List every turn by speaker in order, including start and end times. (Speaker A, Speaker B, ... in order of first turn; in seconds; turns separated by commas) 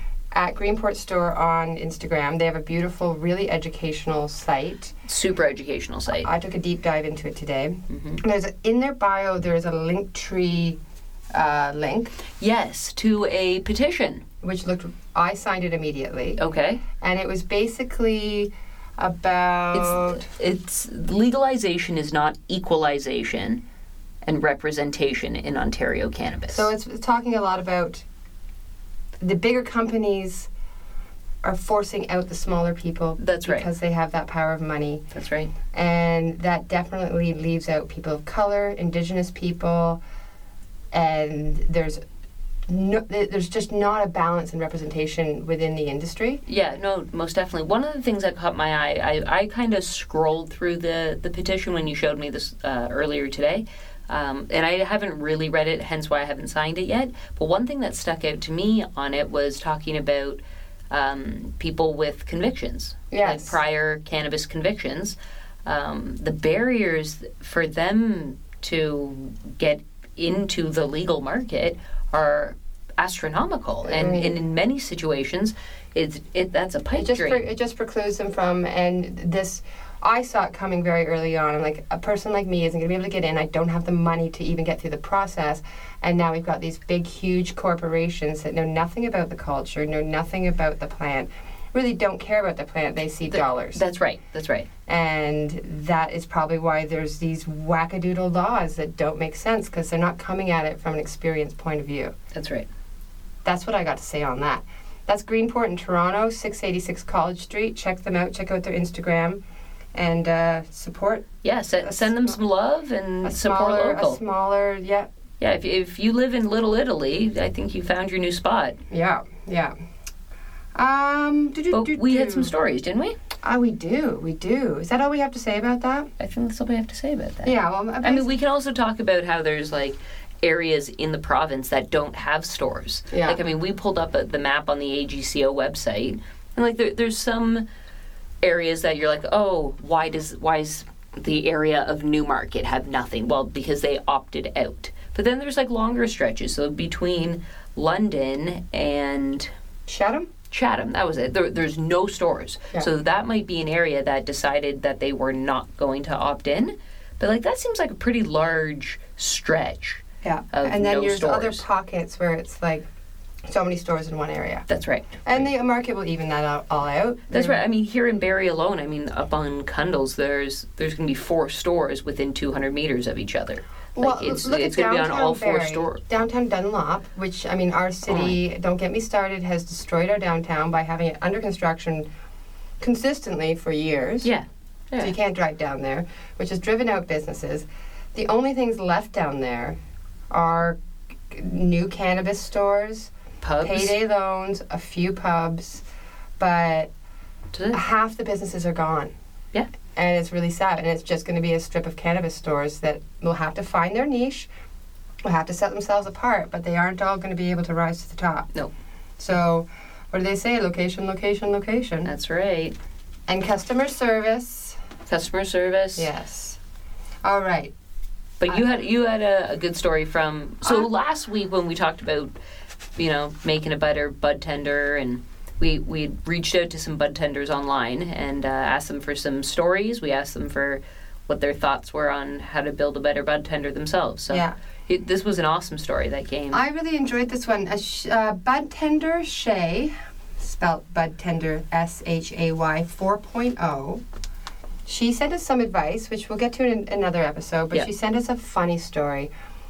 Speaker A: 0.3-4.9, Speaker B: 5.0-6.3, Speaker A: 6.1-10.8, Speaker B: 7.9-8.2, Speaker A: 11.3-12.2, Speaker B: 12.4-14.2, Speaker A: 14.4-16.4, Speaker B: 16.4-16.8, Speaker A: 17.0-20.2, Speaker B: 19.7-23.6, Speaker B: 24.2-26.7, Speaker A: 26.5-28.0, Speaker A: 29.2-30.5, Speaker A: 31.4-35.0, Speaker B: 33.2-33.7, Speaker B: 35.1-35.5, Speaker A: 35.7-40.0, Speaker A: 40.9-42.0, Speaker A: 42.7-46.4, Speaker B: 46.5-77.4, Speaker A: 63.1-63.5, Speaker A: 73.8-74.4, Speaker A: 76.9-93.8, Speaker B: 93.3-94.7, Speaker A: 94.9-102.1, Speaker B: 102.3-102.7, Speaker A: 103.4-109.4, Speaker A: 109.9-111.3, Speaker B: 111.4-114.2, Speaker A: 111.8-112.4, Speaker A: 113.2-115.1, Speaker B: 115.4-118.8, Speaker A: 118.9-119.7, Speaker A: 120.7-122.5, Speaker B: 121.7-123.2, Speaker A: 123.4-126.1, Speaker B: 126.2-137.6, Speaker A: 127.4-128.3, Speaker A: 133.1-133.4, Speaker B: 138.4-149.5, Speaker A: 149.9-150.3, Speaker B: 150.5-161.6, Speaker A: 160.2-162.8, Speaker A: 163.4-164.7, Speaker B: 164.7-165.5, Speaker A: 165.2-167.6, Speaker B: 167.3-176.1, Speaker A: 173.9-182.1, Speaker B: 178.1-178.4, Speaker A: 182.8-184.3, Speaker B: 184.2-185.1, Speaker A: 185.0-189.8, Speaker A: 190.3-190.8, Speaker A: 191.3-193.1, Speaker B: 193.4-193.9, Speaker A: 193.6-195.8, Speaker A: 196.4-196.9, Speaker B: 197.5-197.8, Speaker A: 197.7-199.1, Speaker A: 199.9-204.5, Speaker A: 205.2-208.5, Speaker A: 209.2-212.1, Speaker B: 212.0-212.7, Speaker A: 213.3-214.8, Speaker B: 215.1-216.1, Speaker A: 215.9-216.6, Speaker A: 217.2-217.7, Speaker B: 218.4-222.3, Speaker B: 223.0-236.6, Speaker A: 236.5-244.0, Speaker A: 244.8-249.3